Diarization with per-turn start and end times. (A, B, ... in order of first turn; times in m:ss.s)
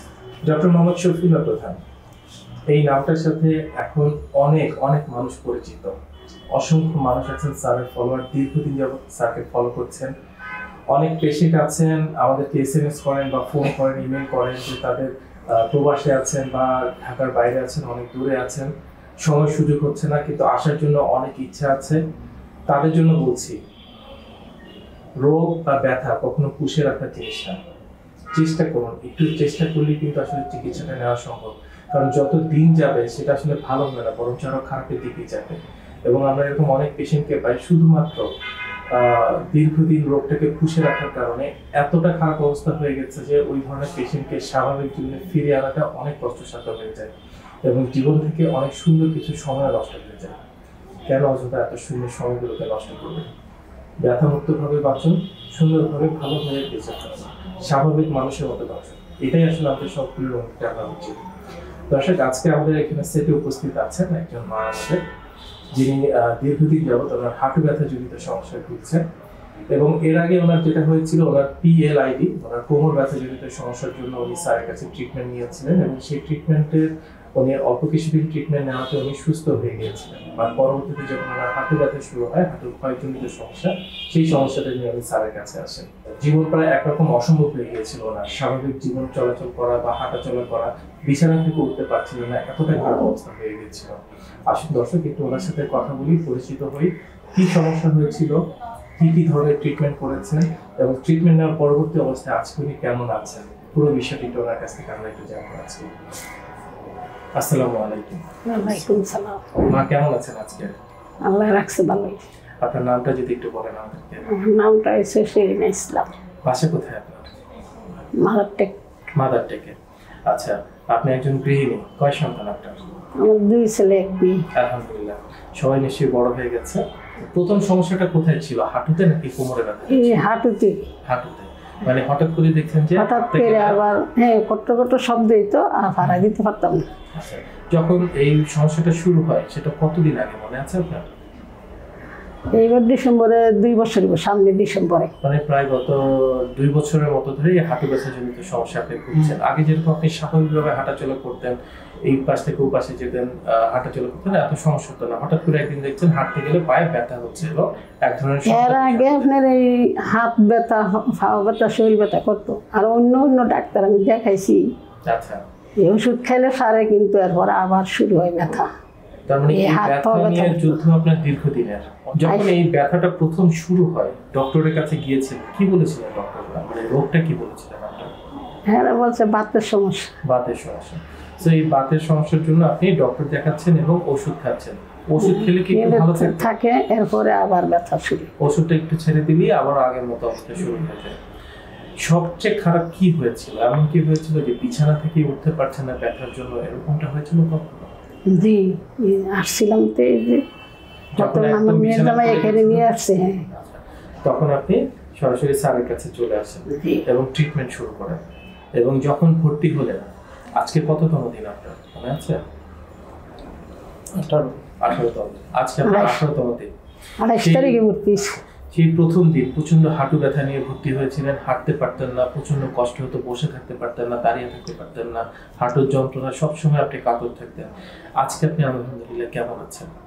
0:00.4-0:01.8 A
0:02.7-0:05.9 A
0:06.5-0:10.1 A
0:10.9-0:18.7 A
0:19.2-0:22.0 A
0:22.7-0:23.6 A
0:25.2-0:27.6 A
0:28.3-0:38.3 A
0:38.9-0:47.1 A
0:47.6-0:50.4 A
0:51.1-0:53.3 A
0:54.0-1:01.2 A
1:01.9-1:05.0 A
1:05.7-1:09.0 A
1:09.7-1:34.0 A
1:34.5-1:38.4 A
1:39.0-1:45.9 A
1:47.4-1:49.0 A
1:48.5-1:49.6 B
1:49.7-1:50.7 A
1:51.3-1:52.2 B
1:52.6-1:54.3 A
1:54.3-1:56.1 B
1:56.4-1:57.3 A
1:58.2-1:58.8 B
1:59.2-1:59.8 A
2:00.3-2:02.8 A
2:03.2-2:04.4 B
2:04.5-2:10.2 A
2:09.9-2:10.9 B
2:11.0-2:13.8 A
2:13.0-2:16.8 B
2:17.1-2:21.1 A
2:22.6-2:25.1 B
2:25.2-2:39.3 A
2:38.5-2:44.6 B
2:45.1-2:45.4 A
2:45.8-2:48.7 B
2:49.3-2:58.1 A
2:49.5-2:50.8 B
2:52.2-2:52.6 B
2:58.7-3:00.1 B
3:00.2-3:06.5 A
3:05.2-3:08.3 B
3:08.4-3:11.2 A
3:12.0-3:17.9 A
3:18.3-3:20.4 B
3:21.2-3:28.2 A
3:21.2-3:23.4 B
3:26.7-3:27.0 B
3:28.8-3:32.4 A
3:34.1-3:36.7 A
3:35.8-3:36.2 B
3:37.2-3:38.4 B
3:37.4-3:37.8 A
3:38.7-3:49.9 A